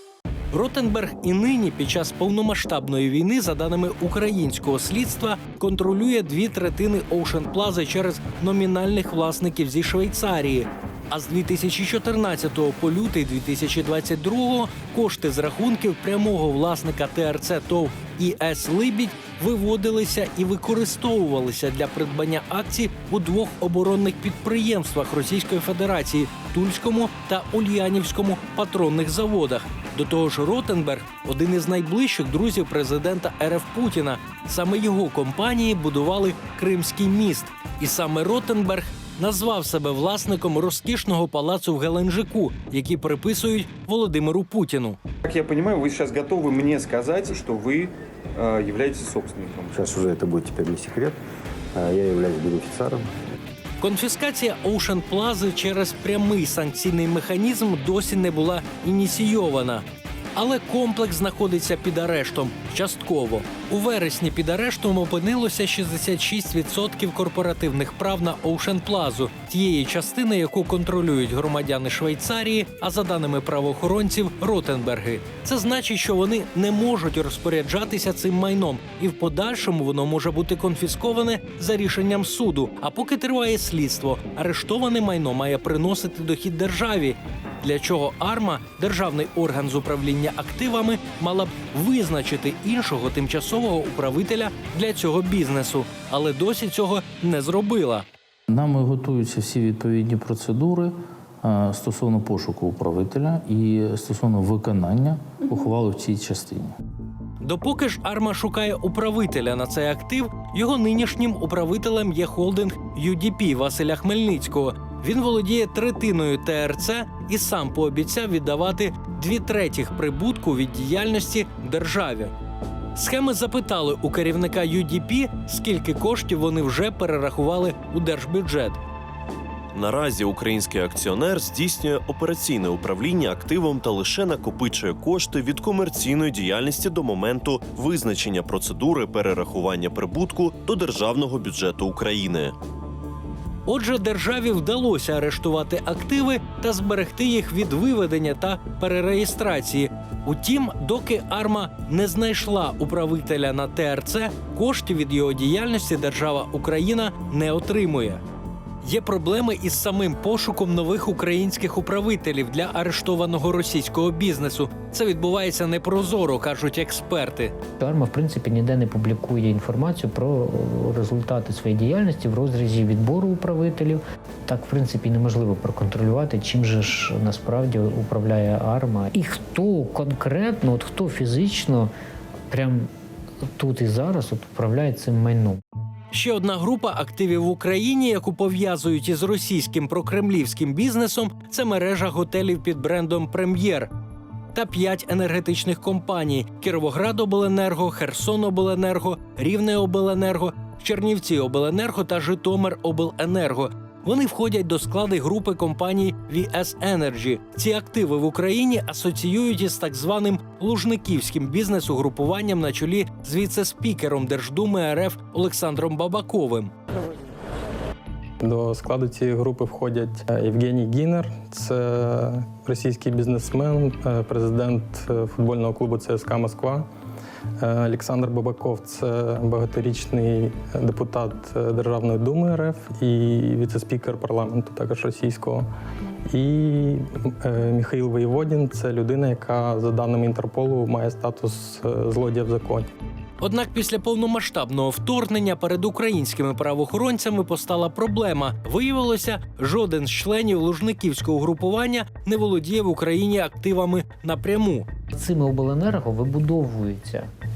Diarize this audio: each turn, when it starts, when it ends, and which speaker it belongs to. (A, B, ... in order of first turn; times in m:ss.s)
0:00.5-0:45.0 A
0:45.3-0:49.8 B
0:49.7-0:51.2 C
0:51.8-0:53.1 C
0:53.8-1:38.1 A
1:38.5-1:46.7 D
1:47.4-2:02.3 A
2:03.0-2:08.8 A
2:09.7-2:22.6 E
2:23.7-2:38.2 A
2:38.8-2:47.6 A
2:47.8-3:01.9 F
3:02.5-3:02.9 F
3:03.5-3:05.6 F
3:06.1-3:13.9 A
3:14.5-3:36.7 A
3:38.4-3:46.9 G
3:47.6-3:55.7 G
3:56.3-4:02.9 G
4:03.4-4:14.9 A
4:15.1-4:17.3 F